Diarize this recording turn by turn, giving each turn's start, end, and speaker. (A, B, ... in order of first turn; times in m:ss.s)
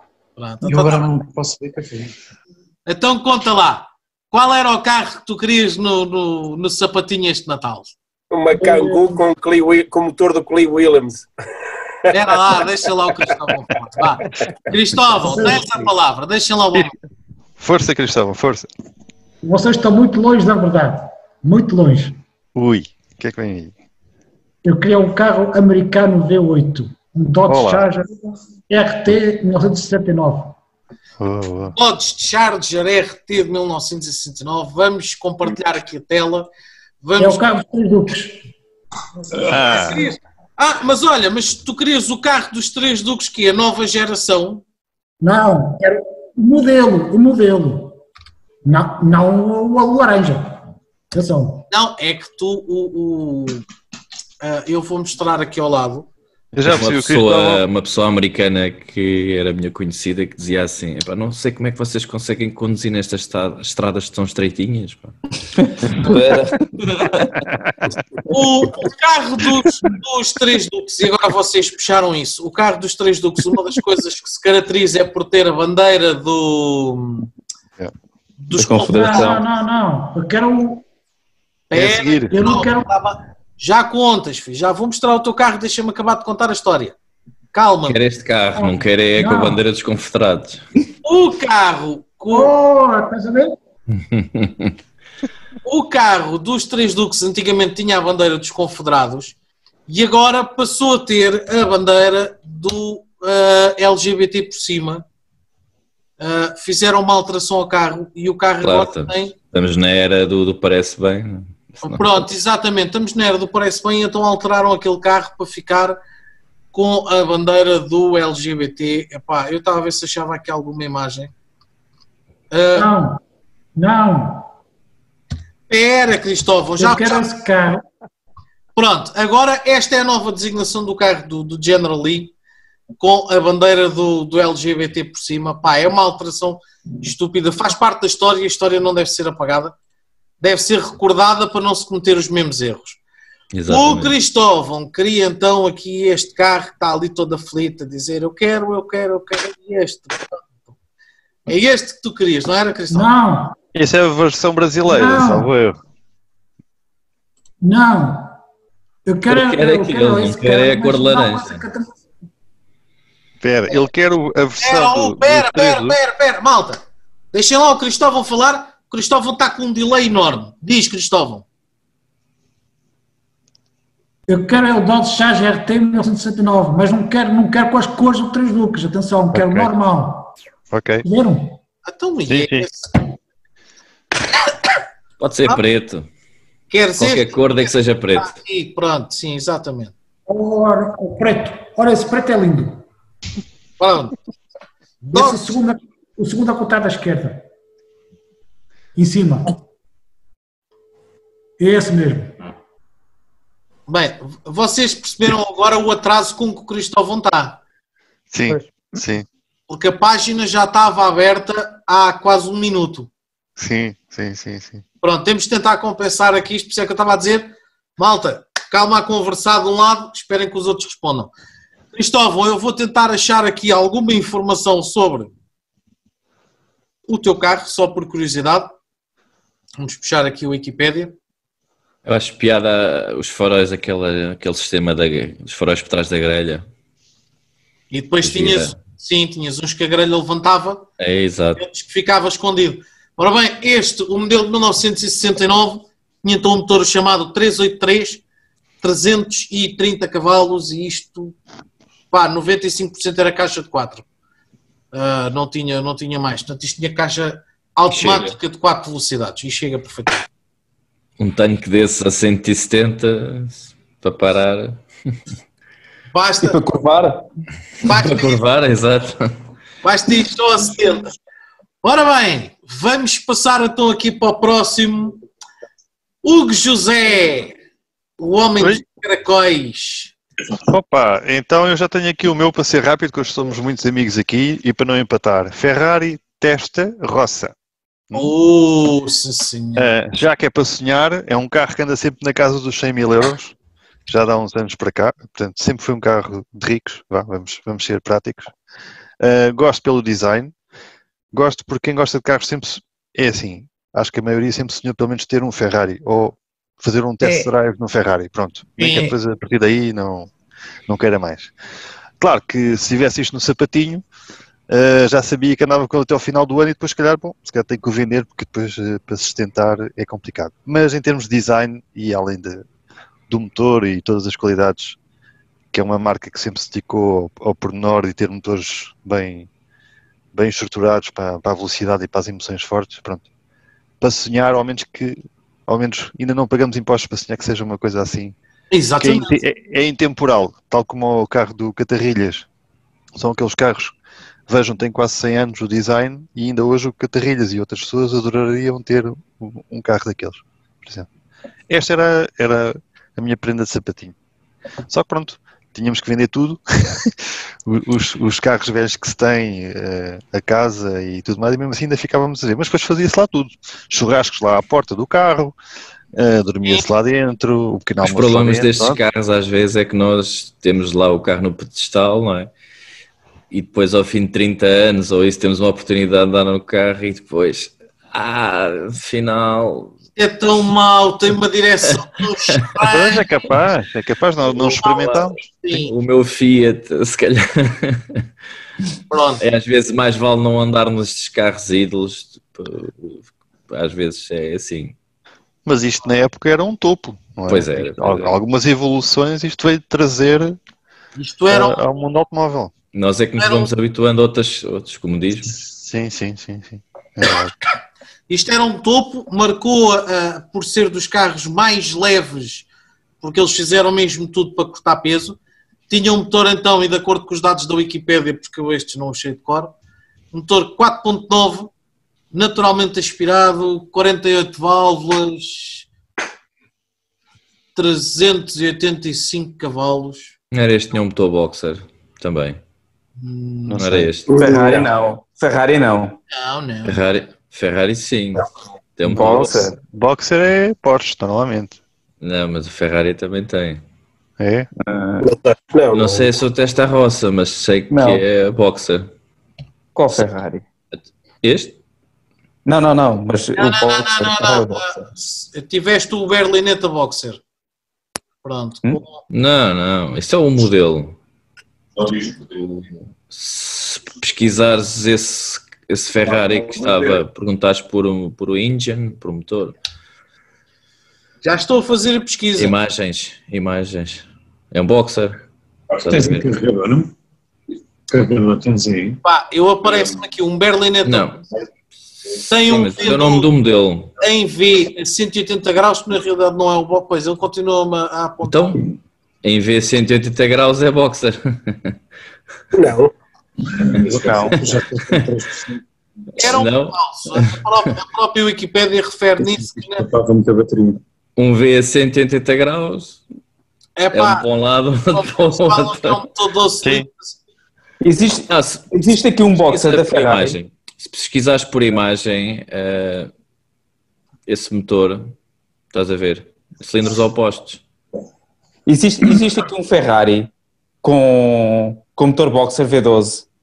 0:00.4-0:01.1 A
0:00.6-0:02.1 B
0:02.8-0:07.9 A
0:08.3-0:11.3 C
0:08.6-0:09.2 D
0:12.1-0:13.1 C
0:12.1-0:16.9 A
0:15.2-0:15.8 D
0:17.6-0:18.7 E
0:19.4-0:22.2 D
0:22.5-0:23.7 E
0:24.6-0:28.2 D
0:27.5-0:27.9 E
0:28.7-0:30.6 D
0:31.2-0:31.7 E
0:31.7-0:36.5 A
0:37.0-0:37.5 A
0:37.2-0:38.4 D
0:39.5-0:40.0 E
0:39.5-0:44.6 A
0:45.2-0:48.0 D
0:48.6-0:51.6 D
0:51.7-0:53.6 A
0:54.4-0:56.1 A
0:56.5-0:57.6 E
0:56.6-1:05.2 F
1:06.0-1:07.3 G
1:08.3-1:17.3 A
1:18.4-1:19.3 A
1:18.6-1:19.4 G
1:18.8-1:20.8 D
1:21.7-1:27.0 A
1:21.7-1:22.3 E
1:22.3-1:22.9 D
1:27.5-1:28.0 A
1:27.9-1:30.6 F
1:28.5-1:29.6 D
1:31.0-1:32.5 A
1:32.3-1:33.6 D
1:34.0-1:34.7 F
1:35.6-1:39.4 A
1:39.9-1:45.0 A
1:46.2-1:49.3 A
1:48.6-1:52.2 F
1:51.8-1:56.0 A
1:56.7-2:01.3 A
2:02.5-2:02.9 A
2:02.7-2:03.2 D
2:03.8-2:04.5 D
2:05.7-2:07.3 A
2:06.8-2:07.8 D
2:08.8-2:12.3 A
2:13.0-2:19.7 A
2:20.4-2:23.0 A
2:23.5-2:24.1 F
2:23.7-2:30.4 A
2:31.5-2:33.1 A
2:32.9-2:33.5 D
2:33.7-2:35.8 E
2:34.8-2:35.5 D
2:37.6-2:38.4 D
2:39.0-2:42.0 D
2:39.3-2:41.6 F
2:43.4-2:46.0 E
2:44.6-2:46.8 A
2:47.3-2:51.4 A
2:54.3-3:00.3 D
2:59.3-2:59.7 E
3:00.7-3:01.0 E
3:01.0-3:01.6 D
3:01.8-3:02.9 A
3:02.3-3:02.7 E
3:05.2-3:06.0 F
3:06.7-3:09.9 A
3:07.0-3:08.3 F
3:10.3-3:12.8 D
3:13.8-3:14.2 A
3:15.0-3:17.4 D
3:15.1-3:15.6 A
3:19.0-3:19.6 D
3:21.6-3:22.3 D
3:23.9-3:27.6 A
3:28.3-3:29.2 E
3:29.7-3:33.1 A
3:33.6-3:34.8 E
3:35.0-3:41.3 A
3:41.9-3:45.3 A
3:47.1-3:48.7 A
3:49.8-3:51.1 A
3:52.0-3:56.6 F
3:57.9-4:00.8 A
3:58.2-3:58.7 F
4:01.0-4:01.6 F
4:01.6-4:08.2 A
4:08.8-4:11.3 A
4:12.1-4:14.0 A
4:14.9-4:20.2 A
4:17.9-4:18.3 F
4:21.2-4:24.8 F
4:26.1-4:26.6 A
4:26.4-4:27.2 G
4:27.8-4:28.4 A
4:27.8-4:29.3 F
4:29.8-4:31.1 A
4:31.8-4:35.2 A
4:36.2-4:37.5 A
4:38.2-4:40.1 A
4:40.7-4:47.5 E
4:48.1-4:49.9 A
4:49.8-4:53.5 E
4:54.1-4:58.5 E
4:59.2-5:00.5 E
5:01.3-5:10.3 E
5:08.8-5:09.1 A
5:10.9-5:11.5 E
5:12.2-5:14.0 E
5:14.7-5:22.6 E
5:23.3-5:25.0 E
5:25.7-5:29.5 E
5:30.3-5:33.2 E
5:34.0-5:38.3 E
5:38.7-5:39.4 A
5:39.0-5:42.5 E
5:43.2-5:43.9 E
5:44.5-5:51.1 E
5:51.7-5:54.1 E
5:54.9-6:05.6 E
6:06.1-6:09.0 E
6:08.0-6:12.5 F
6:13.5-6:19.9 F
6:20.2-6:23.3 A
6:22.9-6:25.3 E
6:24.7-6:25.9 A
6:25.7-6:28.2 F
6:29.1-6:29.4 A
6:29.4-6:34.9 F
6:35.6-6:40.6 E
6:37.5-6:38.4 F
6:41.2-6:41.8 A
6:41.5-6:42.7 E
6:42.9-6:45.5 F
6:43.4-6:43.7 A
6:45.6-6:47.5 E
6:48.3-6:52.7 A
6:53.2-6:55.4 A
6:55.9-6:59.7 A
7:00.3-7:01.7 A
7:02.3-7:05.9 A
7:07.7-7:10.3 A
7:10.5-7:12.6 F
7:13.2-7:13.8 A
7:13.7-7:14.1 E
7:13.8-7:14.6 F
7:14.3-7:14.8 C
7:14.3-7:16.2 G
7:16.3-7:17.0 A
7:16.8-7:19.7 F
7:19.0-7:19.8 G
7:19.9-7:21.8 E
7:22.2-7:23.8 F
7:24.4-7:24.7 E
7:24.8-7:25.3 G
7:25.2-7:26.3 C
7:25.9-7:29.1 F
7:27.9-7:28.2 G
7:29.9-7:30.6 G
7:31.4-7:31.7 F
7:32.6-7:35.0 G
7:33.5-7:37.4 A
7:38.4-7:39.2 A
7:39.3-7:41.2 F
7:42.1-7:49.7 F
7:46.8-7:47.1 B
7:51.4-7:52.7 A
7:52.6-7:55.4 F
7:56.0-7:57.1 B
7:56.0-7:56.5 F
7:58.1-7:59.2 B
7:59.2-8:01.4 A
8:01.0-8:01.4 F
8:02.3-8:04.1 F
8:02.5-8:03.5 A
8:04.2-8:08.8 A
8:08.4-8:11.9 F
8:12.7-8:13.1 C
8:13.7-8:15.7 B
8:14.1-8:14.5 G
8:16.4-8:20.1 A
8:16.4-8:17.6 F
8:20.0-8:21.0 B
8:21.4-8:23.2 F
8:24.0-8:24.4 A
8:24.1-8:26.2 F
8:25.1-8:27.4 A
8:26.8-8:27.1 E
8:28.0-8:30.6 G
8:28.5-8:28.9 F
8:29.6-8:33.3 F
8:34.5-8:35.3 F
8:35.9-8:37.8 F
8:38.9-8:40.5 G
8:41.0-8:43.4 G